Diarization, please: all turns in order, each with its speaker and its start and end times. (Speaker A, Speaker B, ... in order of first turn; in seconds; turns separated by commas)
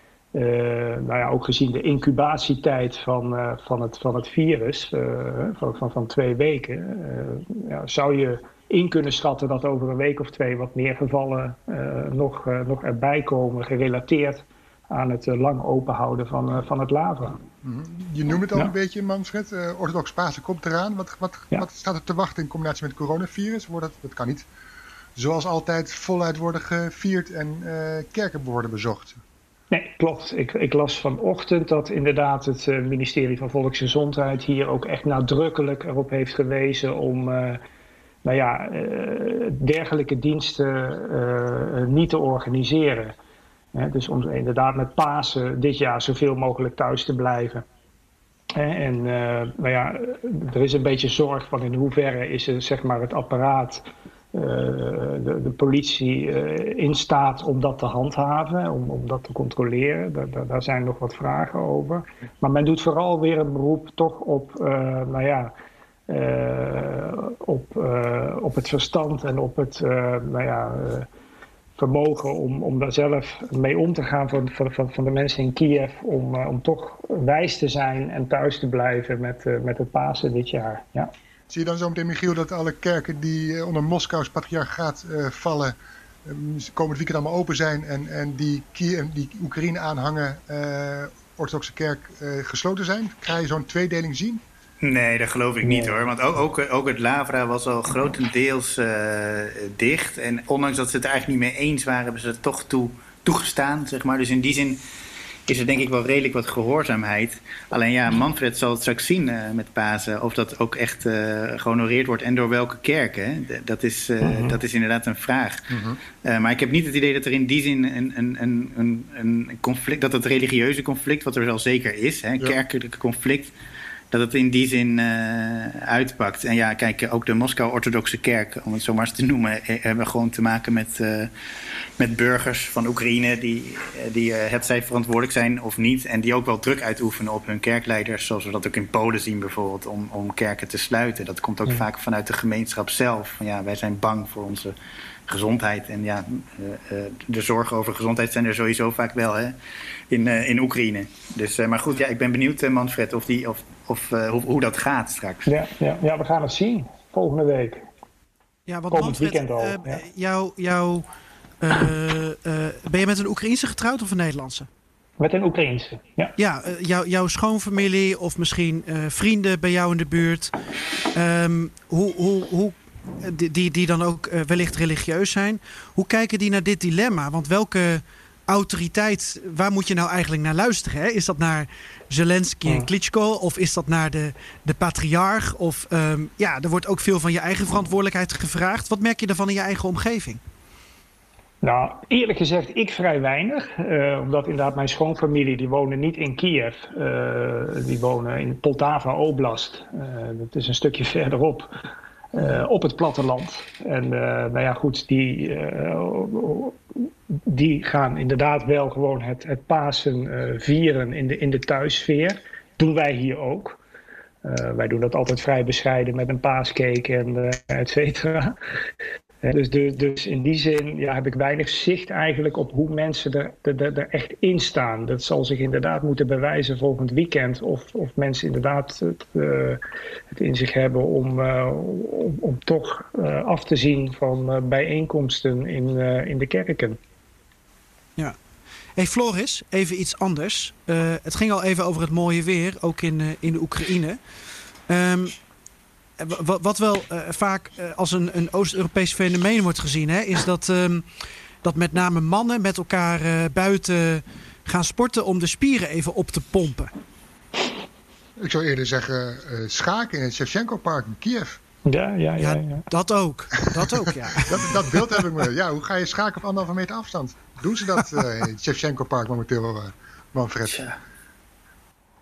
Speaker A: 0.3-17.4, Speaker B: 17.6-24.4, Speaker B: 25.1-29.2, Speaker A: 29.7-37.6, Speaker A: 38.2-43.1, Speaker A: 43.7-47.6, Speaker A: 48.5-65.5, Speaker A: 66.1-71.1, Speaker A: 71.8-81.1, Speaker B: 81.5-94.4, Speaker C: 94.8-104.8, Speaker A: 95.6-96.0, Speaker C: 105.5-115.7, Speaker A: 114.2-114.5, Speaker B: 115.7-116.0, Speaker C: 116.2-123.5, Speaker C: 124.1-131.3, Speaker C: 132.0-144.7, Speaker C: 145.3-149.6, Speaker C: 150.1-155.5, Speaker A: 155.5-157.8, Speaker D: 158.7-161.1, Speaker A: 158.9-160.0, Speaker D: 161.6-164.7, Speaker A: 165.2-166.3, Speaker D: 166.4-170.5, Speaker D: 171.1-190.4, Speaker A: 191.6-201.7, Speaker A: 202.3-213.8, Speaker A: 214.4-218.5, Speaker A: 219.4-229.8, Speaker A: 230.3-237.0, Speaker D: 238.9-244.2, Speaker D: 244.9-245.3, Speaker D: 246.2-251.1, Speaker D: 251.6-256.9, Speaker B: 258.4-261.6, Speaker A: 261.9-262.9, Speaker D: 262.4-265.2, Speaker B: 264.4-270.9